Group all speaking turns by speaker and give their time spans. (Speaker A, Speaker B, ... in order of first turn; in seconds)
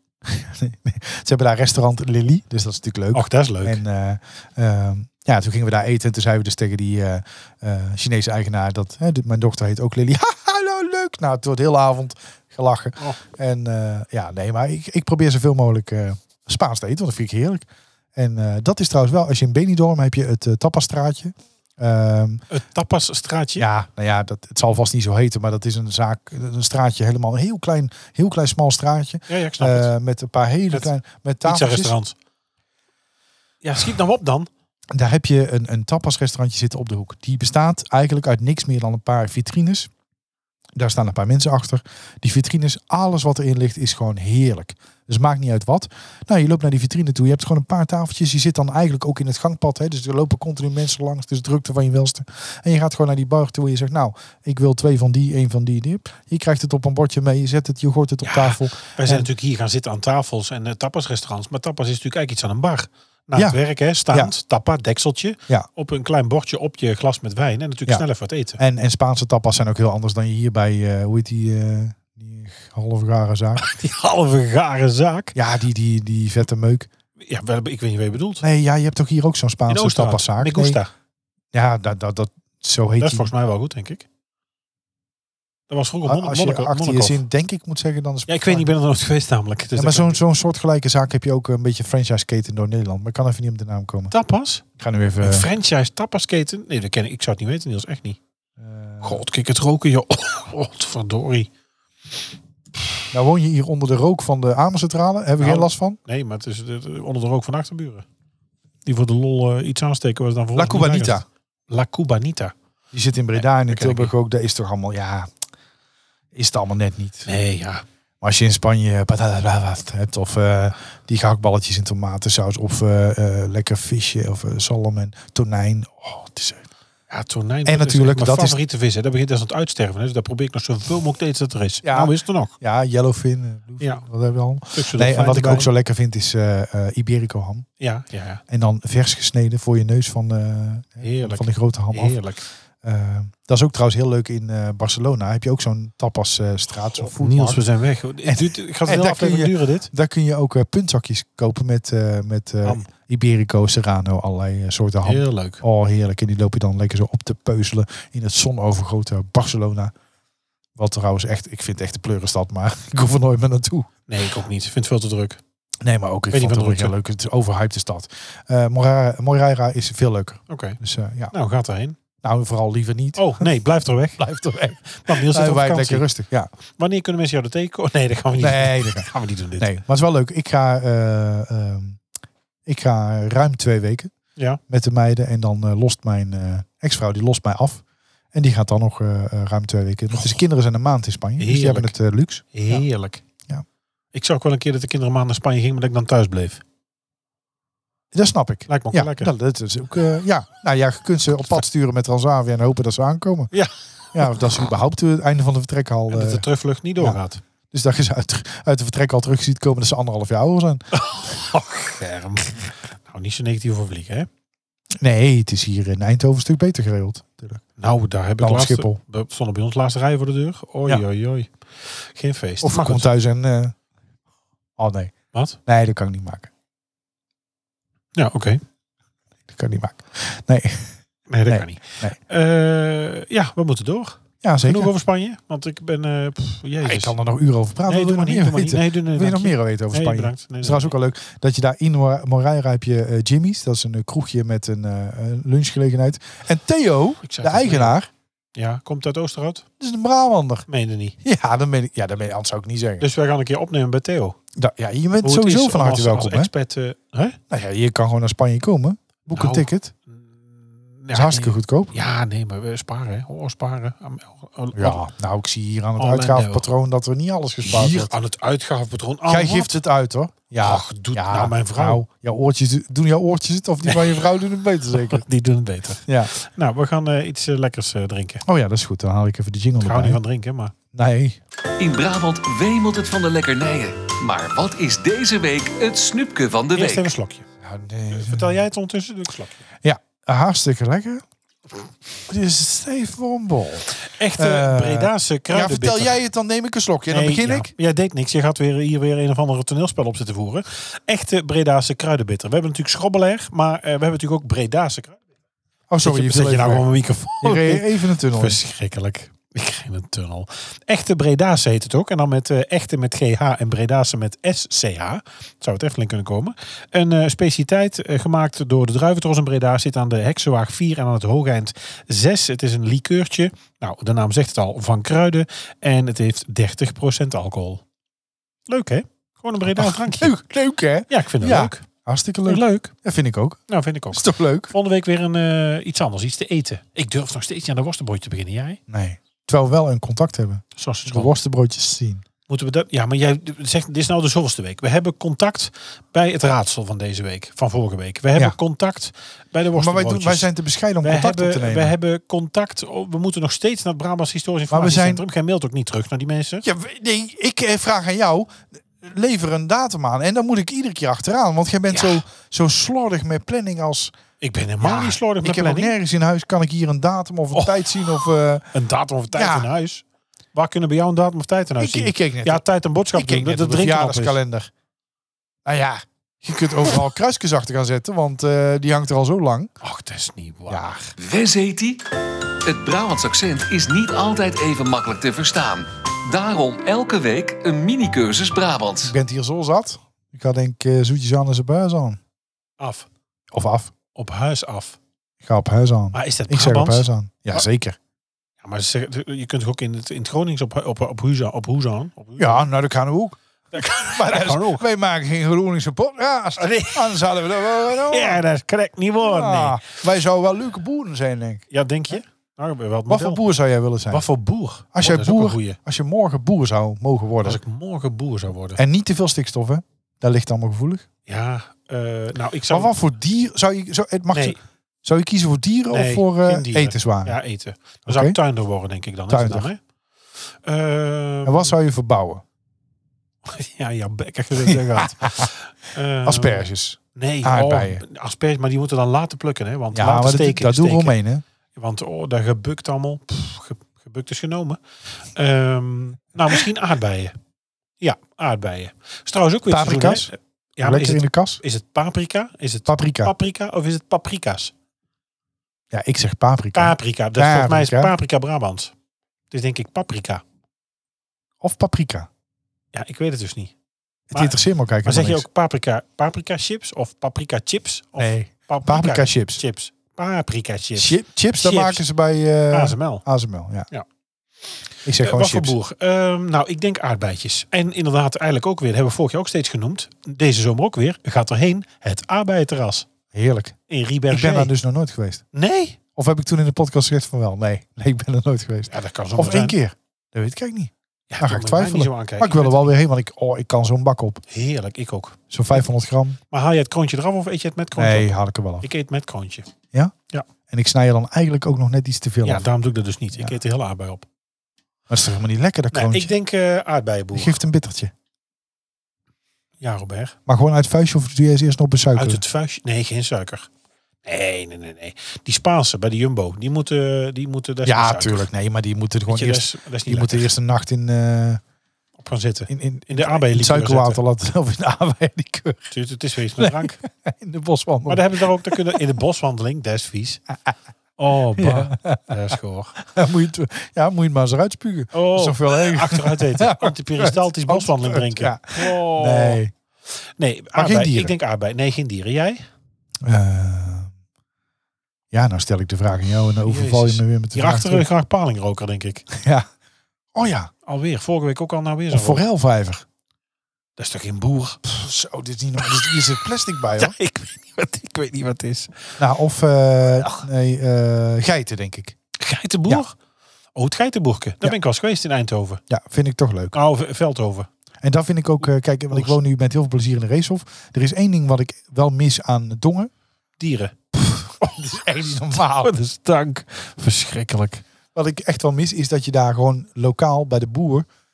Speaker A: 0.2-22.4, 23.6-31.9, 34.9-39.9, 40.8-59.3, 68.6-73.6, 75.3-76.9, 78.4-80.8, 81.5-83.3, 86.0-88.7, 89.8-94.1, 94.8-95.5, 98.6-99.2, 103.1-106.0, 110.5-111.2, 112.9-115.3, 116.3-117.3, 118.2-126.7, 127.6-128.6, 131.8-137.7, 138.5-142.2, 142.8-147.6, 148.2-159.9, 160.8-163.9, 165.8-171.3, 172.2-173.5, 174.2-176.5, 178.4-182.0, 182.7-184.1, 184.7-187.8, 188.3-192.8, 198.1-203.5, 204.1-206.4, 207.7-210.8, 215.0-217.6, 218.4-219.0, 222.6-223.7, 224.8-225.1, 225.7-226.5, 229.5-230.9, 231.5-232.2, 234.4-234.9, 236.8-248.1, 249.8-250.7, 251.2-253.1, 254.6-256.5, 257.5-259.9, 261.1-261.9, 264.7-268.1, 269.3-275.2, 276.1-276.3, 278.4-280.2, 280.9-281.4, 287.6-288.6, 289.8-291.2, 292.3-297.7, 305.9-306.9, 307.4-308.6, 329.6-333.6, 334.1-334.7, 338.9-342.2, 349.8-351.9, 354.7-355.2, 356.6-364.1, 364.8-368.7, 369.3-369.7, 371.8-374.7, 375.6-379.7, 380.7-381.0, 389.0-392.2, 393.5-393.9, 395.4-398.0, 402.4-408.4, 409.2-412.1, 413.1-414.2, 414.9-417.6, 418.8-421.1, 422.7-427.4, 428.1-428.4, 429.3-429.7, 431.4-432.4, 434.6-435.5, 436.2-438.0, 439.9-441.4, 449.7-451.6, 452.9-453.3, 455.9-458.1, 461.6-462.3, 464.3-465.4, 468.2-469.6, 471.0-473.9, 475.0-475.7, 483.3-483.8, 484.3-485.4, 486.1-494.4, 495.5-496.4, 497.9-498.9, 500.7-502.6, 505.1-506.3, 507.3-508.1, 510.5-512.4, 517.8-521.6, 522.7-525.9, 526.6-529.0, 531.6-532.3, 533.0-539.7, 540.7-541.3, 543.2-544.1, 545.3-548.0, 549.3-549.7, 550.3-550.7, 552.1-553.0, 554.8-557.1, 559.2-562.1, 565.9-566.8, 568.0-573.1, 574.1-575.9, 578.1-581.1
Speaker B: 3.1-3.8, 22.5-23.6, 29.3-29.9, 31.4-32.1, 33.6-34.5, 58.2-68.6, 73.6-75.3, 77.2-78.4, 79.7-80.9, 83.0-84.0, 85.7-87.2, 88.3-90.2, 94.1-94.6, 95.2-98.2, 99.0-101.5, 105.4-108.0, 108.8-112.5, 113.4-114.1, 117.2-117.8, 127.1-132.5, 133.8-134.0, 134.7-135.7, 137.8-138.4, 141.0-142.4, 147.2-149.9, 155.0-155.6, 164.1-165.4, 166.3-166.9, 170.5-170.8, 171.3-172.0, 173.2-174.2, 174.9-176.1, 176.8-179.7, 191.4-191.9, 192.5-193.2, 194.1-196.6, 198.7-199.3, 203.5-204.5, 206.1-207.4, 210.9-214.3, 217.8-223.1, 225.3-225.6, 228.2-228.6, 231.3-237.2, 237.9-240.9, 247.2-248.0, 248.6-249.6, 250.7-251.2, 253.0-254.4, 255.2-257.4, 259.3-265.0, 266.0-266.7, 267.6-269.8, 270.6-272.0, 273.8-274.2, 274.9-278.4, 279.8-280.7, 286.7-287.4, 288.1-289.6, 294.0-296.2, 297.1-305.2, 306.0-327.8, 328.7-330.3, 331.1-331.8, 332.4-332.9, 333.7-338.8, 340.8-341.3, 342.5-350.5, 351.0-356.6, 361.9-362.2, 364.4-365.9, 367.5-367.8, 368.7-374.4, 379.8-381.1, 392.8-393.1, 394.1-395.0, 396.1-397.6, 398.6-402.6, 403.7-404.8, 406.6-407.1, 408.1-409.8, 411.7-413.4, 414.1-415.8, 417.4-418.8, 421.3-422.9, 424.3-424.6, 425.9-429.8, 430.6-431.7, 433.4-441.1, 441.7-447.3, 448.0-454.7, 456.7-458.9, 459.5-460.4, 462.9-463.7, 464.3-472.0, 472.7-473.2, 475.2-483.1, 483.9-484.7, 485.5-486.0, 488.9-489.8, 491.3-492.9, 494.5-495.8, 496.5-499.7, 502.4-504.2, 505.9-507.6, 509.8-510.4, 512.1-513.7, 514.2-518.5, 519.3-520.5, 522.2-524.2, 525.9-527.0, 528.1-530.4, 531.2-533.0, 535.1-539.6, 540.4-542.6, 546.6-549.3, 550.9-552.4, 554.0-554.8, 555.8-556.1, 557.0-559.2, 562.4-563.1, 563.7-565.8, 566.7-567.7, 573.6-573.9, 575.6-577.8
Speaker C: 281.8-287.1, 381.2-382.0, 382.6-389.1